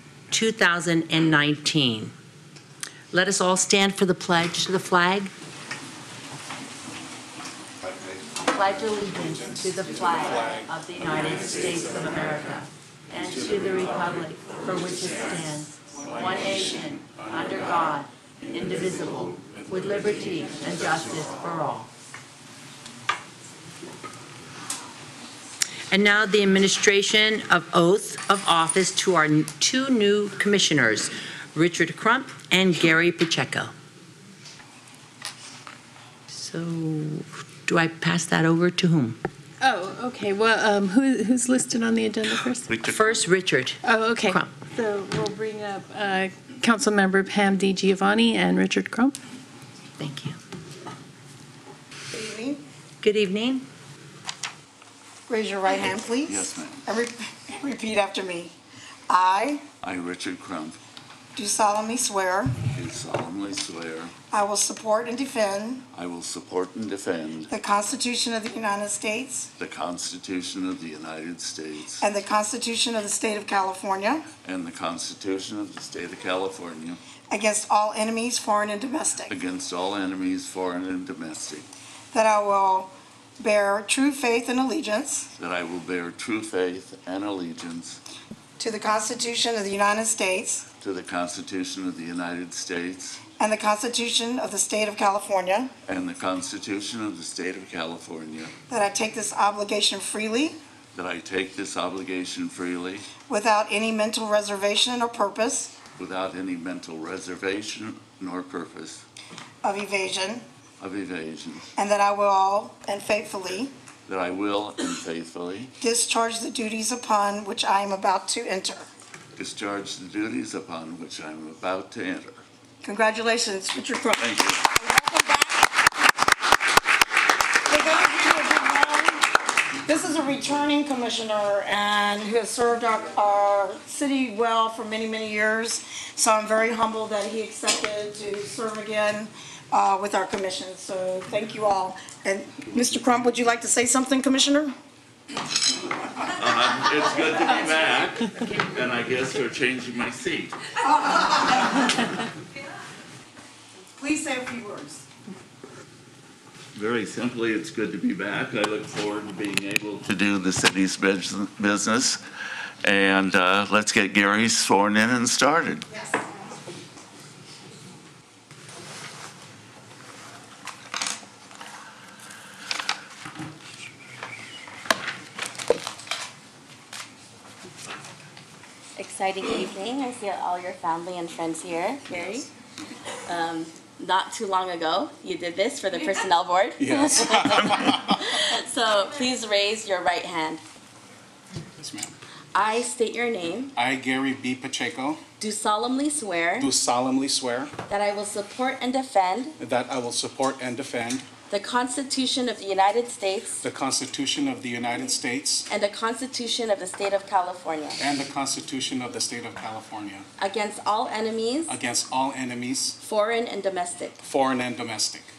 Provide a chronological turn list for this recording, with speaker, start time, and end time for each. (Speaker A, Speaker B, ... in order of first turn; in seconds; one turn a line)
Speaker A: 0.3-2.1
Speaker A: 3.1-5.3
Speaker A: 8.4-21.9
Speaker A: 25.9-33.7
Speaker A: 36.3-39.2
Speaker B: 39.6-42.7
Speaker C: 42.7-43.1
Speaker A: 42.8-44.6
Speaker B: 43.8-49.2
Speaker A: 50.0-50.4
Speaker D: 52.1-52.6
Speaker A: 53.0-53.6
Speaker D: 55.3-58.5
Speaker C: 56.2-56.9
Speaker D: 59.1-59.7
Speaker C: 59.8-60.8
Speaker D: 61.4-62.6
Speaker C: 62.6-64.1
Speaker D: 64.3-65.8
Speaker C: 65.9-67.5
Speaker D: 67.5-69.5
Speaker C: 69.6-72.1
Speaker D: 72.0-74.3
Speaker C: 74.4-77.0
Speaker D: 77.3-79.3
Speaker C: 79.3-81.7
Speaker D: 82.1-85.3
Speaker C: 85.4-88.0
Speaker D: 88.6-90.7
Speaker C: 90.8-93.2
Speaker D: 93.4-95.7
Speaker C: 95.9-98.5
Speaker D: 98.7-100.6
Speaker C: 100.9-103.2
Speaker D: 103.3-105.8
Speaker C: 106.0-109.0
Speaker D: 109.6-110.4
Speaker C: 110.8-111.7
Speaker D: 111.8-113.7
Speaker C: 114.1-115.8
Speaker D: 115.8-118.9
Speaker C: 119.4-122.4
Speaker D: 122.8-125.7
Speaker C: 124.2-124.6
Speaker D: 127.7-129.3
Speaker D: 129.8-144.7
Speaker C: 146.2-150.6
Speaker D: 150.8-151.8
Speaker D: 153.9-155.0
Speaker C: 156.8-162.2
Speaker C: 162.8-165.9
Speaker E: 179.0-182.5
Speaker E: 183.3-190.6
Speaker F: 186.8-188.2
Speaker F: 191.8-192.1
Speaker E: 192.6-193.7
Speaker F: 193.8-195.2
Speaker E: 195.4-196.7
Speaker F: 196.6-197.7
Speaker E: 197.9-199.6
Speaker F: 199.6-201.3
Speaker E: 201.5-203.6
Speaker F: 203.6-205.7
Speaker E: 205.7-208.0
Speaker F: 208.0-210.3
Speaker E: 210.4-211.8
Speaker F: 211.7-213.0
Speaker E: 213.0-214.2
Speaker F: 214.2-215.3